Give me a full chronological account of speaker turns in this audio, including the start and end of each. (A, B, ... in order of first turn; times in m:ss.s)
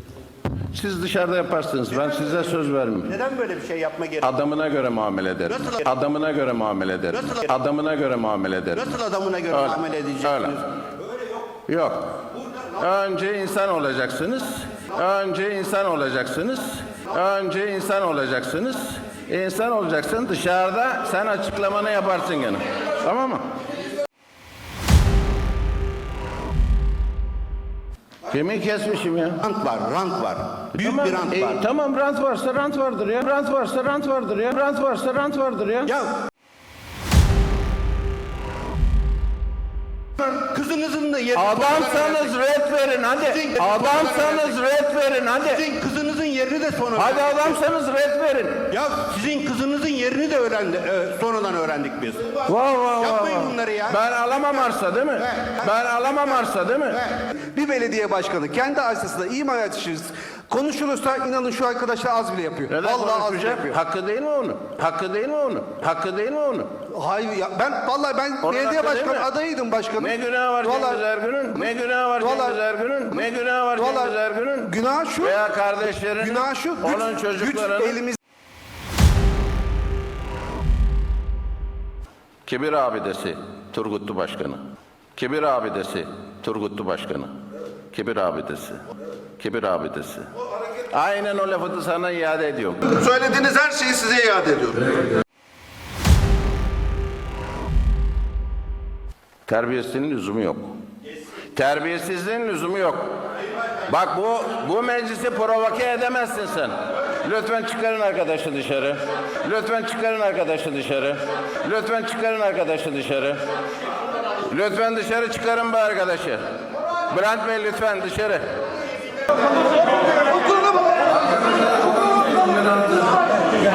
0:00.7-0:03.2 A
0:01.9-0:02.4 B
0:03.0-0:04.3 B
0:04.2-0:10.6 A
0:05.5-0:05.8 B
0:07.1-0:07.5 B
0:08.7-0:10.6 B
0:11.6-0:12.2 A
0:12.8-0:23.6 A
0:28.3-0:29.4 A
0:29.4-0:31.6 B
0:30.7-0:36.0 A
0:35.8-0:36.1 B
0:40.2-0:42.4 B
0:41.3-0:45.7 A
0:43.2-0:44.6 B
0:45.5-0:47.6 B
0:46.9-0:48.8 A
0:48.7-0:52.4 B
0:52.4-0:57.0 A
0:53.0-0:56.4 B
0:57.5-1:03.8 C
1:02.7-1:06.8 A
1:06.9-1:11.0 C
1:08.4-1:09.3 A
1:10.0-1:18.0 A
1:12.2-1:12.6 C
1:13.8-1:15.4 C
1:16.2-1:18.2 C
1:22.4-1:24.6 A
1:25.1-1:27.3 A
1:27.9-1:28.8 A
1:29.4-1:30.3 A
1:30.9-1:32.9 A
1:32.9-1:35.0 D
1:39.4-1:40.7 A
1:41.5-1:43.1 A
1:43.9-1:53.4 A
1:54.5-1:56.4 A
1:57.1-1:58.5 A